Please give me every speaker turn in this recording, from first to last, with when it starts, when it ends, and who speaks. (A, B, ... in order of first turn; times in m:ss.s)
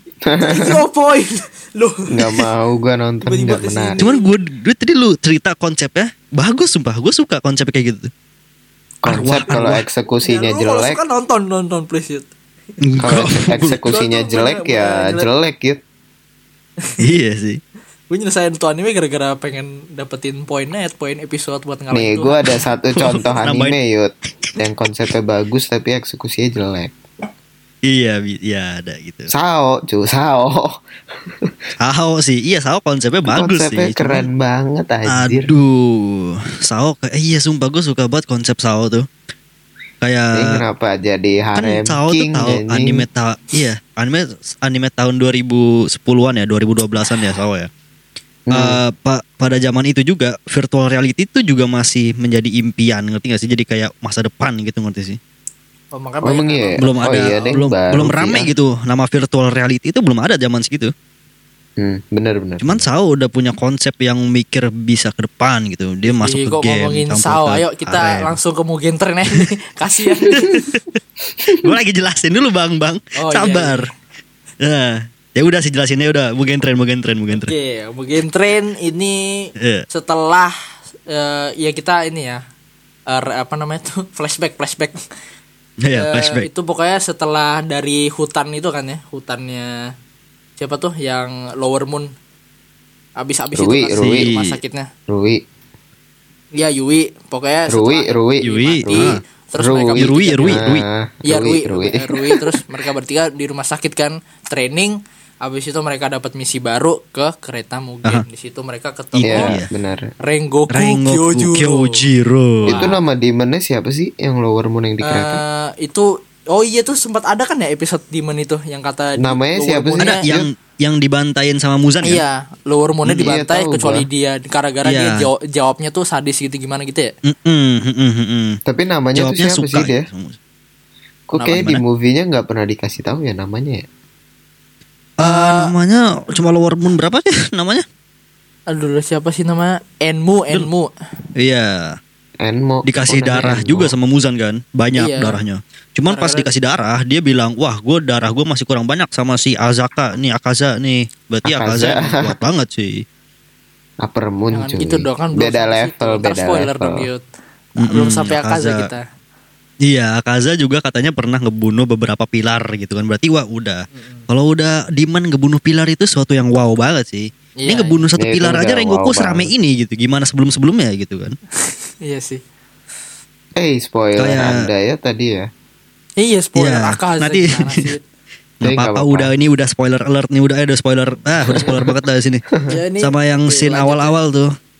0:00.2-0:00.8 A
0:00.4-0:02.4 B
0:02.1-0:04.0 A
0:03.2-0:04.3 B
0:04.0-0:08.1 C
0:09.0-0:11.0 A
0:09.1-0:09.8 C
0:10.2-0:12.3 B
0:12.8-0:13.8 C
0:13.0-0:15.8 A
0:13.8-0:15.3 B
0:17.0-0:17.6 C
0:18.1-0:22.5 B
0:21.9-0:26.9 A
0:23.0-0:23.8 C
0:27.9-0:29.3 C
0:29.3-0:30.8 A
0:31.8-0:34.3 C
0:33.3-0:35.5 A
0:35.1-0:39.0 C
0:40.0-0:40.6 C
0:40.3-0:43.0 A
0:41.5-0:47.7 C
0:48.5-0:48.8 A
0:48.5-0:55.2 C
0:55.9-0:57.4 B
0:56.2-0:58.5 A
0:56.8-1:00.9 C
1:01.8-1:02.8 A
1:02.6-1:08.3 C
1:06.0-1:10.5 B
1:10.3-1:10.8 C
1:11.5-1:13.9 C
1:13.2-1:13.9 B
1:14.6-1:17.5 C
1:17.3-1:20.5 B
1:19.6-1:19.8 C
1:21.1-1:22.4 B
1:23.1-1:25.0 B
1:25.8-1:26.5 C
1:25.9-1:29.7 B
1:30.6-1:32.1 B
1:33.2-1:34.9 B
1:33.5-1:34.3 A
1:34.0-1:34.6 C
1:35.1-1:35.4 A
1:36.5-1:40.6 B
1:37.7-1:42.4 A
1:38.4-1:39.2 C
1:40.0-1:40.8 C
1:41.2-1:49.6 B
1:49.1-1:49.7 C
1:49.2-1:50.1 A
1:50.2-1:52.0 B
1:50.7-1:52.9 C
1:52.6-1:53.0 B
1:52.7-1:55.4 A
1:55.0-2:00.2 B
1:59.2-2:00.5 A
2:00.0-2:02.2 C
2:02.0-2:07.1 B
2:03.1-2:04.1 A
2:04.8-2:05.2 C
2:07.2-2:08.6 C
2:08.6-2:10.1 A
2:09.1-2:10.4 C
2:11.3-2:13.8 A
2:11.4-2:11.6 B
2:11.5-2:11.8 C
2:15.2-2:17.8 C
2:15.2-2:15.7 B
2:18.7-2:20.9 B
2:21.4-2:22.0 C
2:22.4-2:23.9 A
2:22.8-2:33.0 C
2:24.9-2:25.4 B
2:26.1-2:26.5 B
2:31.4-2:32.4 A
2:34.0-2:37.1 A
2:34.5-2:37.2 B
2:37.8-2:39.0 B
2:37.8-2:38.9 C
2:39.8-2:51.4 C
2:43.9-2:44.2 B
2:47.6-2:48.0 B
2:48.2-2:49.5 A
2:51.6-2:52.4 B
2:53.6-2:55.5 A
2:54.2-2:54.7 C
2:56.2-2:58.0 B
2:56.6-2:57.9 C
2:58.6-3:02.4 C
2:58.6-2:59.3 A
3:01.6-3:01.9 A
3:02.7-3:04.1 B
3:03.0-3:04.5 C